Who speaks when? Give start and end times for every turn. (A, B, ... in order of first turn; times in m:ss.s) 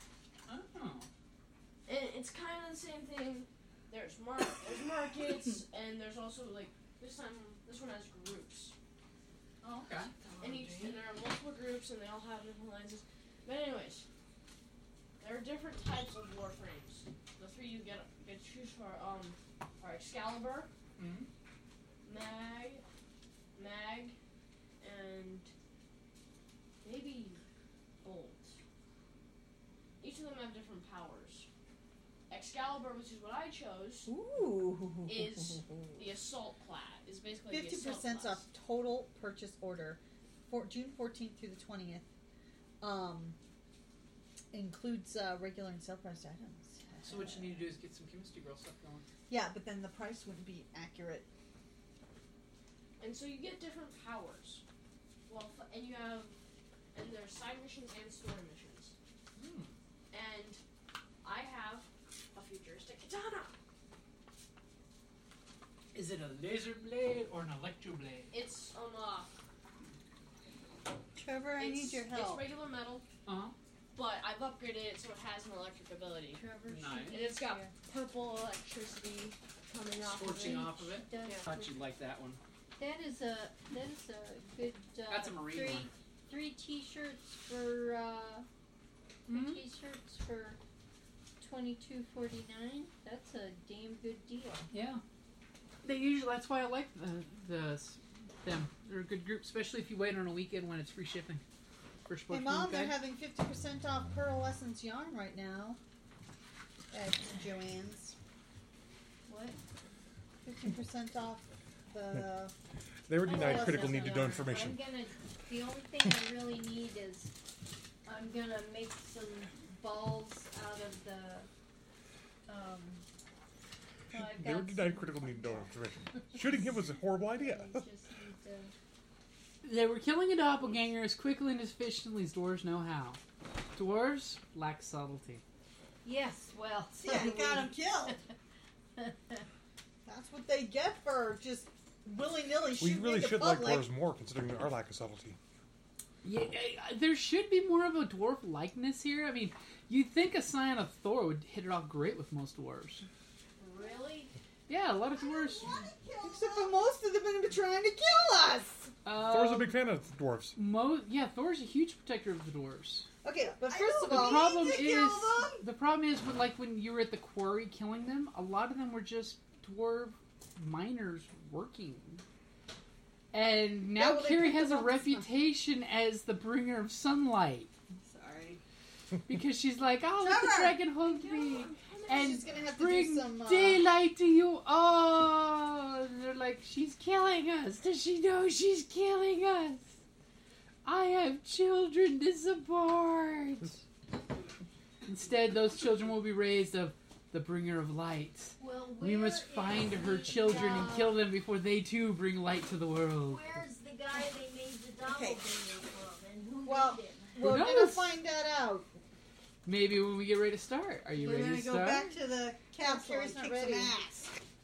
0:00.5-0:01.1 A
0:01.9-0:08.7 B
0:09.6-0:10.1 A
0:10.2-0:10.8 C
0:10.4-0:14.0 B
0:15.2-0:20.7 B
0:21.0-0:21.3 A
0:22.0-0:22.8 B
0:23.6-0:24.2 B
0:24.8-0:25.5 B
0:26.8-0:27.4 B
0:28.0-0:28.5 B
0:30.0-0:31.5 B
0:32.3-0:34.1 B
0:34.1-0:36.1 D
0:35.1-0:38.4 B
0:37.5-0:42.1 D
0:42.8-0:43.4 D
0:44.5-0:47.6 D
0:47.0-0:49.1 A
0:49.3-0:51.3 D
0:53.0-0:54.6 B
0:55.3-0:56.4 B
0:56.9-0:59.0 B
0:59.4-0:59.7 A
1:00.1-1:00.6 B
1:01.2-1:03.6 B
1:05.9-1:08.3 A
1:08.3-1:09.3 B
1:11.2-1:12.4 E
1:11.2-1:12.1 D
1:11.6-1:13.0 B
1:13.3-1:13.5 A
1:13.9-1:16.4 B
1:16.3-1:17.7 C
1:16.7-1:17.2 A
1:17.1-1:21.5 B
1:20.0-1:22.4 A
1:20.3-1:21.9 C
1:22.8-1:28.5 C
1:25.1-1:25.9 A
1:29.3-1:29.6 A
1:29.3-1:30.6 C
1:31.4-1:34.7 C
1:34.7-1:35.0 A
1:35.8-1:41.4 A
1:42.1-1:43.0 A
1:42.3-1:45.8 D
1:46.9-1:48.2 D
1:49.3-1:49.6 C
1:50.4-1:52.5 D
1:53.1-1:54.8 F
1:53.2-1:55.0 B
1:53.3-1:57.3 C
1:53.4-1:54.1 D
1:58.1-2:01.5 C
2:02.5-2:03.0 C
2:04.1-2:05.7 C
2:04.2-2:07.9 F
2:06.5-2:08.7 C
2:09.6-2:13.2 A
2:13.8-2:15.4 A
2:16.0-2:17.7 C
2:17.0-2:18.2 E
2:17.2-2:17.7 D
2:19.0-2:19.4 C
2:20.1-2:23.9 D
2:22.7-2:25.4 F
2:26.2-2:33.1 A
2:33.6-2:34.3 C
2:34.7-2:36.6 A
2:35.1-2:38.9 D
2:39.0-2:39.8 A
2:39.1-2:40.6 F
2:40.6-2:43.1 A
2:43.2-2:45.7 D
2:43.7-2:44.8 E
2:44.0-2:52.2 A
2:53.3-2:57.7 A
2:54.0-2:55.3 D
2:58.0-2:58.6 D
2:59.3-3:10.0 A
3:00.2-3:00.8 D
3:01.2-3:02.5 B
3:02.1-3:03.8 D
3:10.8-3:13.8 A
3:15.1-3:23.5 A
3:18.6-3:21.3 C
3:23.2-3:27.6 C
3:26.7-3:28.9 D
3:27.4-3:28.1 A
3:29.7-3:32.1 A
3:31.3-3:34.3 D
3:31.3-3:32.1 E
3:32.8-3:34.1 E
3:33.2-3:33.9 C